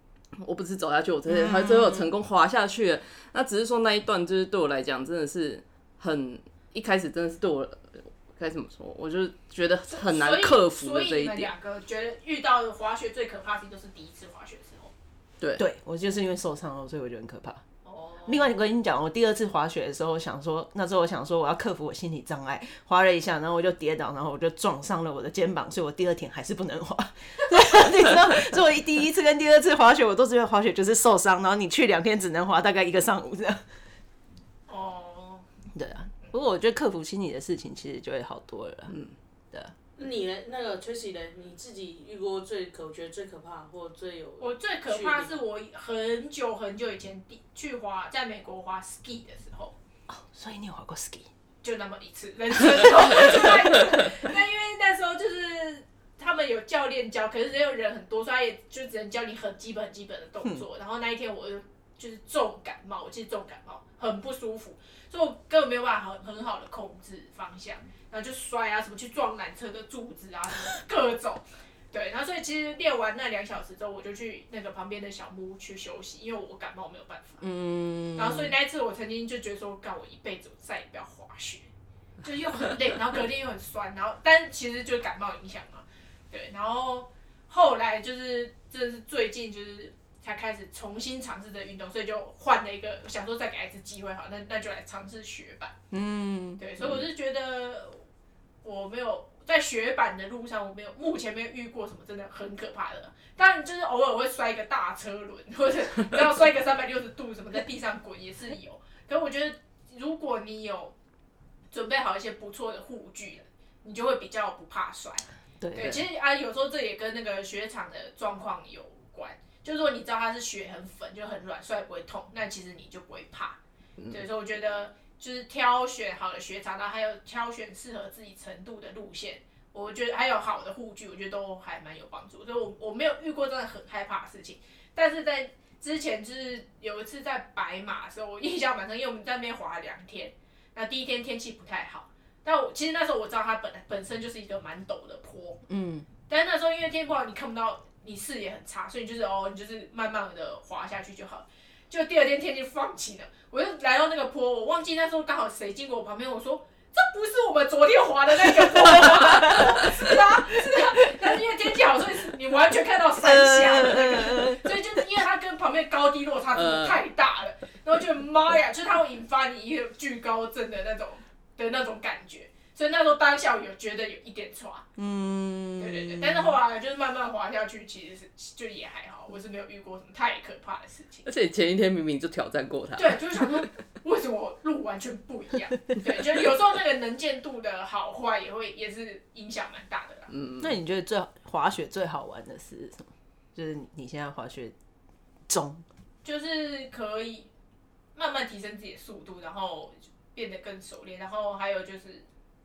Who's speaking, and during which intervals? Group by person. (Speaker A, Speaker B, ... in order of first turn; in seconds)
Speaker A: 0.4-11.5, 15.4-15.7, 124.0-124.2, 166.6-167.0, 181.2-183.7, 190.3-190.7
Speaker B: 1.3-2.1, 15.6-17.6, 18.3-33.6, 35.8-39.0, 50.1-51.3, 77.4-78.5, 95.9-96.6, 115.6-116.0, 145.7-146.1, 159.2-159.7, 163.2-164.7, 175.0-176.6, 190.6-194.7, 195.5-195.8
Speaker C: 9.9-14.9, 17.9-18.5, 34.7-35.4, 44.4-49.8, 51.6-77.4, 78.2-81.7, 82.2-95.7, 96.6-98.0, 98.6-110.9, 111.7-123.6, 124.1-145.6, 146.3-174.9, 175.8-181.3, 183.0-190.3, 196.2-197.5, 198.2-202.2
Speaker D: 40.0-45.4